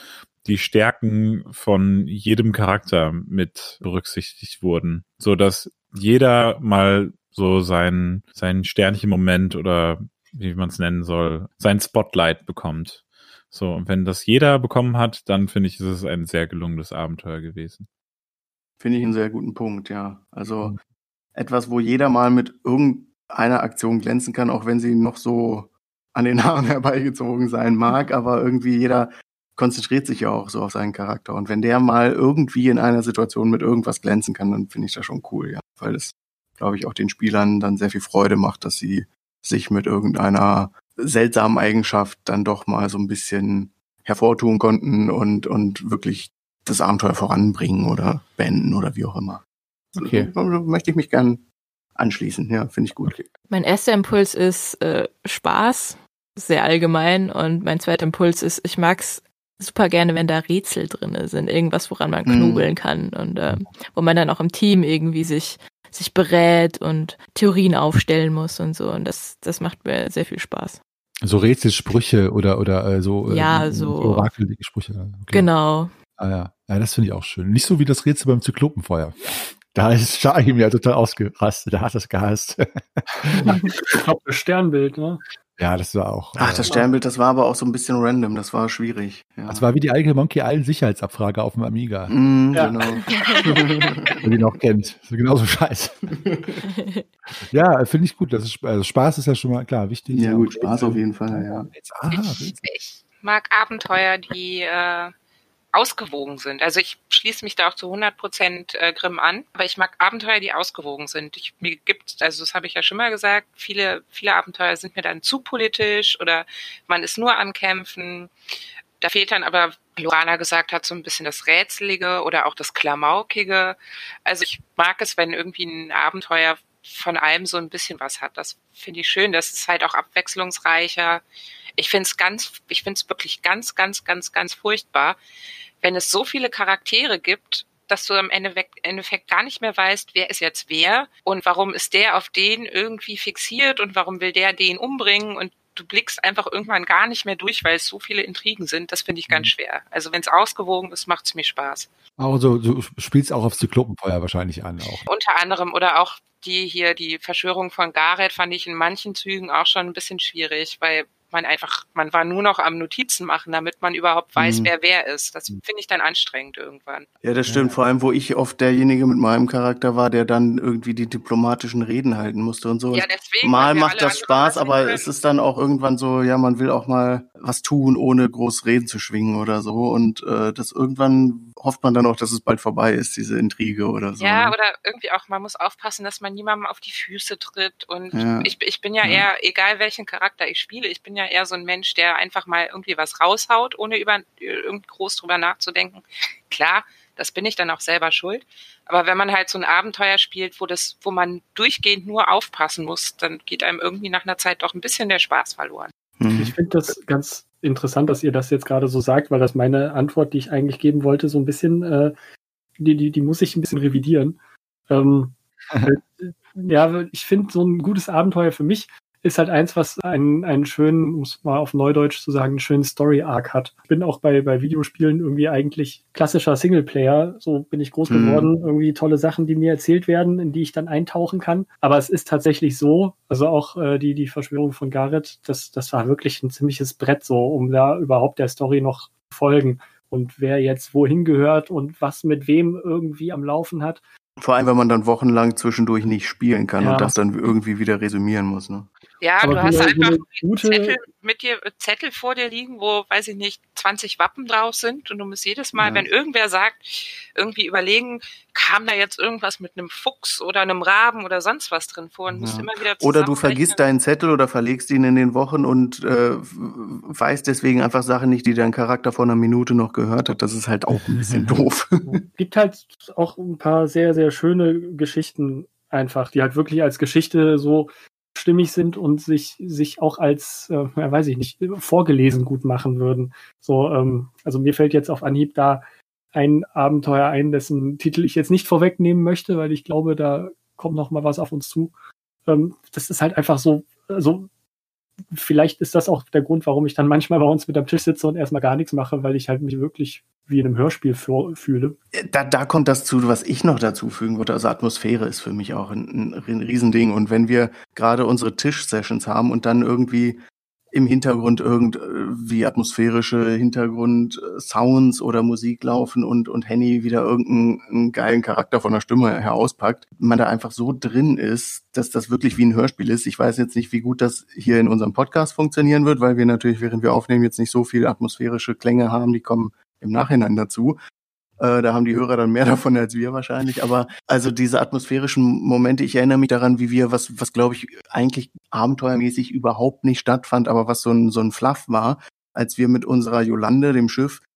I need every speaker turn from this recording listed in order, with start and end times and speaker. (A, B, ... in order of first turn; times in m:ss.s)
0:00.4-0:17.9 A
0:18.8-0:20.7 B
0:21.4-0:49.4 B
0:49.9-0:50.3 C
0:50.0-0:51.4 B
0:52.0-0:53.3 B
0:53.5-1:10.8 D
1:02.2-1:02.7 B
1:11.2-1:15.5 C
1:13.3-1:14.3 D
1:15.3-1:15.9 D
1:16.2-1:23.7 C
1:23.3-1:25.2 E
1:25.6-1:26.8 C
1:26.4-1:29.6 B
1:29.5-1:32.2 C
1:32.1-1:34.3 B
1:32.5-1:32.8 E
1:33.1-1:33.4 D
1:34.2-1:36.1 C
1:36.1-1:36.6 B
1:36.6-1:37.0 D
1:37.5-1:42.6 C
1:40.1-1:41.7 B
1:42.1-1:45.1 F
1:45.7-1:58.3 F
1:59.0-2:11.2 F
2:11.8-2:15.2 F
2:15.8-2:31.9 F
2:32.2-2:35.1 C
2:35.1-2:47.1 F
2:44.4-2:44.7 B
2:47.2-3:04.6 B
2:47.5-2:47.8 C
2:52.9-2:55.1 F
3:04.2-3:25.9 F
3:08.1-3:09.3 B
3:26.2-3:26.6 B
3:26.3-3:32.2 E
3:32.8-3:34.4 E
3:34.9-4:04.0 E
3:48.1-3:48.5 B
4:04.4-4:08.9 B
4:06.8-4:07.1 E
4:09.2-4:23.8 F
4:09.4-4:11.0 E
4:15.8-4:16.1 B
4:22.3-4:32.2 B
4:31.1-4:31.5 C
4:32.1-4:51.9 E
4:52.5-4:54.5 E
4:55.3-5:02.0 E
5:02.1-5:10.4 B
5:10.9-5:31.0 B
5:31.6-5:44.4 B